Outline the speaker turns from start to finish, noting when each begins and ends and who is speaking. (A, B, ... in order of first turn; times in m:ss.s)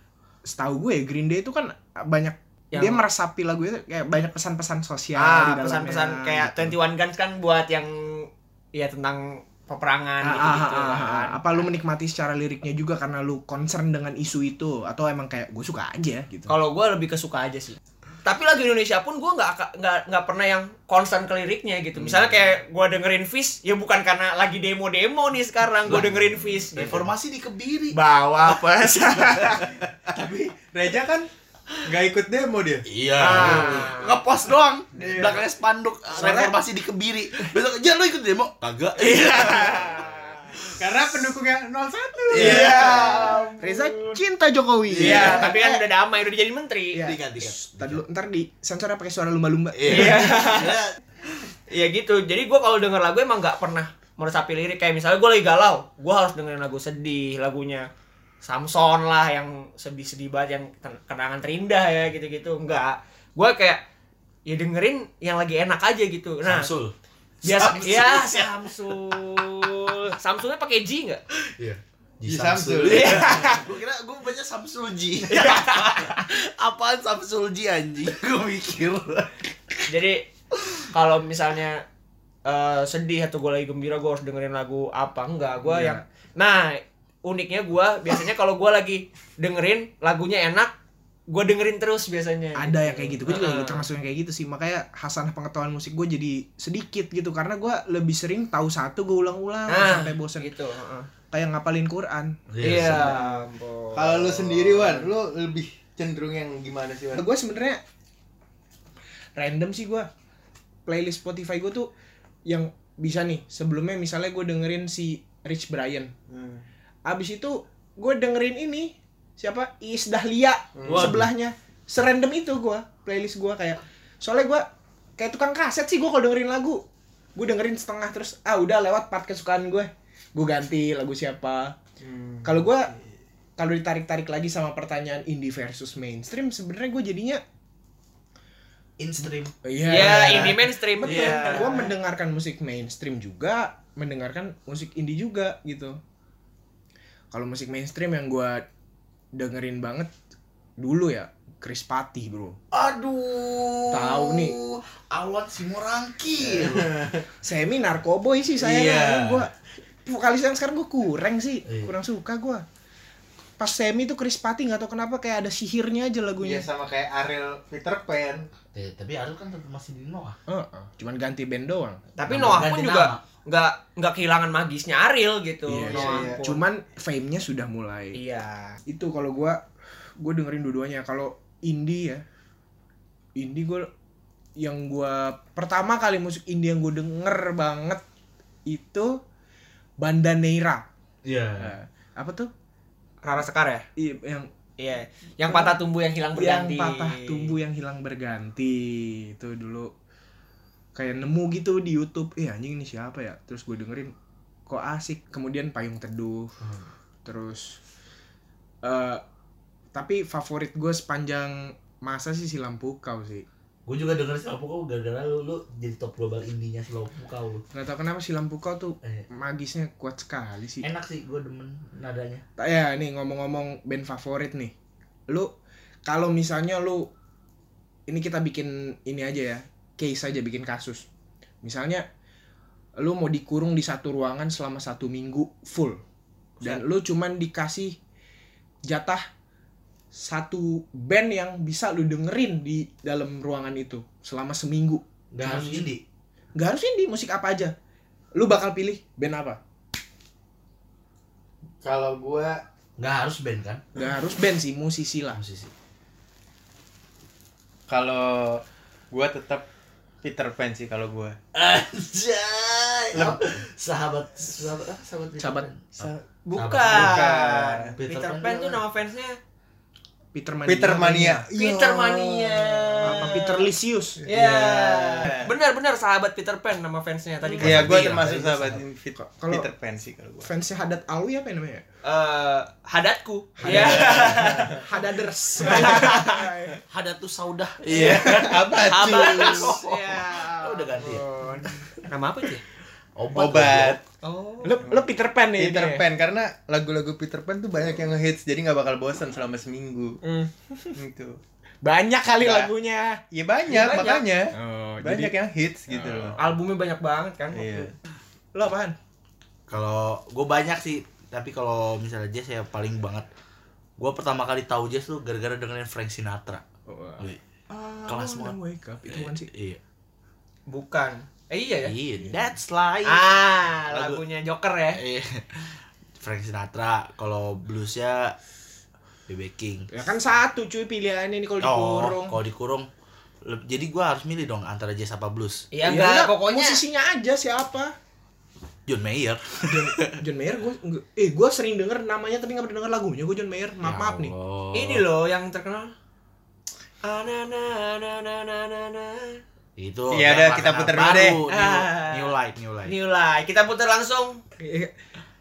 0:00.5-0:06.8 A
0:02.7-0:03.0 B
0:05.2-0:11.4 B
0:10.2-0:16.5 A
0:16.5-0:27.1 B
0:25.8-0:28.0 C
0:27.9-0:29.7 B
0:29.2-0:29.9 C
0:30.1-0:32.8 D
0:32.8-0:40.0 C
0:33.2-0:34.2 B
0:33.4-0:33.7 A
0:34.9-0:35.4 D
0:36.1-0:36.5 A
0:39.0-0:40.2 B
0:40.5-0:43.0 D
0:42.3-0:43.5 C
0:42.4-0:44.2 B
0:43.6-0:45.8 A
0:44.9-0:45.5 C
0:45.0-0:47.0 B
0:46.9-0:50.5 A
0:47.0-0:48.0 C
0:49.7-0:51.0 C
0:49.9-0:50.8 B
0:51.7-0:57.9 B
0:58.4-1:03.8 B
1:04.4-1:06.7 B
1:06.4-1:09.9 C
1:07.4-1:11.2 B
1:07.5-1:07.9 A
1:11.3-1:19.8 C
1:12.2-1:13.4 D
1:12.9-1:13.6 B
1:15.3-1:16.1 B
1:19.9-1:20.3 B
1:20.9-1:21.8 B
1:22.4-1:30.7 B
1:25.6-1:26.0 A
1:31.3-1:33.9 B
1:32.6-1:40.5 A
1:39.7-1:41.1 B
1:41.3-1:43.4 A
1:42.5-1:43.2 C
1:42.6-1:44.4 B
1:43.9-1:47.2 D
1:47.1-1:47.8 A
1:49.4-1:50.1 A
1:50.8-1:51.9 A
1:52.4-1:56.1 A
1:56.3-1:56.6 D
1:57.0-2:06.8 A
2:00.8-2:01.2 D
2:00.9-2:01.3 C
2:07.3-2:11.8 A
2:12.0-2:12.9 D
2:12.4-2:12.9 A
2:13.6-2:17.4 A
2:19.0-2:20.5 C
2:19.6-2:26.0 A
2:19.8-2:21.9 B
2:21.0-2:21.8 C
2:27.3-2:28.6 A
2:29.3-2:30.1 A
2:30.8-2:32.6 A
2:32.7-2:36.9 C
2:33.9-2:34.6 A
2:36.5-2:37.2 D
2:37.4-2:39.5 A
2:38.6-2:39.4 D
2:40.0-2:42.6 A
2:41.7-2:41.9 C
2:43.6-2:46.7 A
2:46.4-2:48.5 D
2:48.7-2:50.4 C
2:50.5-2:52.0 A
2:52.2-2:56.6 B
2:52.3-2:53.2 C
2:55.7-2:58.2 A
2:55.9-2:56.4 D
2:58.1-2:58.8 B
2:58.8-2:59.6 A
3:00.2-3:02.2 A
3:03.4-3:03.9 A
3:04.6-3:08.0 A
3:08.7-3:09.2 A
3:10.0-3:10.8 A
3:11.2-3:11.7 C
3:11.6-3:12.5 A
3:13.2-3:13.8 B
3:14.0-3:14.5 A
3:14.8-3:17.6 B
3:15.4-3:15.8 A
3:16.3-3:19.9 A
3:20.9-3:24.1 A
3:24.7-3:26.5 A
3:26.6-3:26.9 C
3:27.2-3:27.8 A
3:28.8-3:29.2 A
3:29.9-3:33.4 A
3:33.8-3:37.6 C
3:37.7-3:40.9 A
3:40.8-3:42.4 C
3:42.6-3:44.7 A
3:46.0-3:47.1 A
3:48.1-3:51.1 A
3:51.6-3:52.0 A
3:53.0-3:56.0 A
3:56.6-3:58.0 A
3:58.8-3:59.2 A
4:00.1-4:05.9 A
4:05.3-4:06.0 C
4:06.5-4:07.7 A
4:08.3-4:09.6 A
4:11.8-4:12.6 D
4:13.0-4:13.8 C
4:13.9-4:15.4 A
4:15.3-4:15.7 C
4:17.9-4:19.6 D
4:20.2-4:21.4 D
4:21.5-4:27.3 C
4:23.1-4:23.5 D
4:25.4-4:25.7 A
4:26.4-4:29.4 B
4:26.9-4:27.9 D
4:27.9-4:28.8 C
4:30.3-4:31.4 A
4:30.6-4:32.9 D
4:31.6-4:33.4 B
4:33.0-4:34.2 A
4:34.2-4:35.5 D
4:34.3-4:37.9 B
4:34.3-4:34.9 C
4:37.6-4:38.8 C
4:37.6-4:40.5 D
4:39.2-4:39.7 A
4:40.4-4:41.8 A
4:42.0-4:44.8 B
4:43.6-4:44.4 C
4:43.6-4:46.8 A
4:43.7-4:44.8 D
4:45.6-4:46.2 B
4:46.9-4:51.3 C
4:47.9-4:49.8 D
4:47.9-4:52.6 B
4:53.2-4:54.0 C
4:53.3-4:54.0 D
4:54.2-4:54.8 B
4:54.6-4:56.0 A
4:54.8-5:00.2 D
5:00.2-5:00.9 A
5:01.0-5:01.4 D
5:01.8-5:03.2 A
5:02.4-5:02.7 D
5:03.3-5:06.4 D
5:03.7-5:04.2 B
5:04.5-5:05.3 A
5:05.9-5:06.4 A
5:06.4-5:07.9 B
5:07.5-5:07.9 D
5:08.5-5:09.0 A
5:09.7-5:13.3 C
5:14.0-5:16.6 C
5:16.9-5:19.5 A
5:18.0-5:19.8 C
5:20.7-5:21.9 B
5:21.8-5:23.2 C
5:23.0-5:25.0 B
5:23.9-5:24.2 C
5:24.9-5:28.4 C
5:29.3-5:29.9 C
5:29.9-5:32.4 A
5:31.6-5:32.9 C
5:33.4-5:35.7 C
5:35.7-5:36.8 B
5:35.8-5:37.9 A
5:38.9-5:40.2 C
5:39.7-5:44.3 A
5:43.8-5:45.0 C
5:44.7-5:45.9 B
5:47.0-5:49.4 B
5:49.8-5:52.9 C
5:50.1-5:51.4 D
5:51.5-5:52.3 B
5:52.8-5:54.4 B
5:54.6-5:54.9 A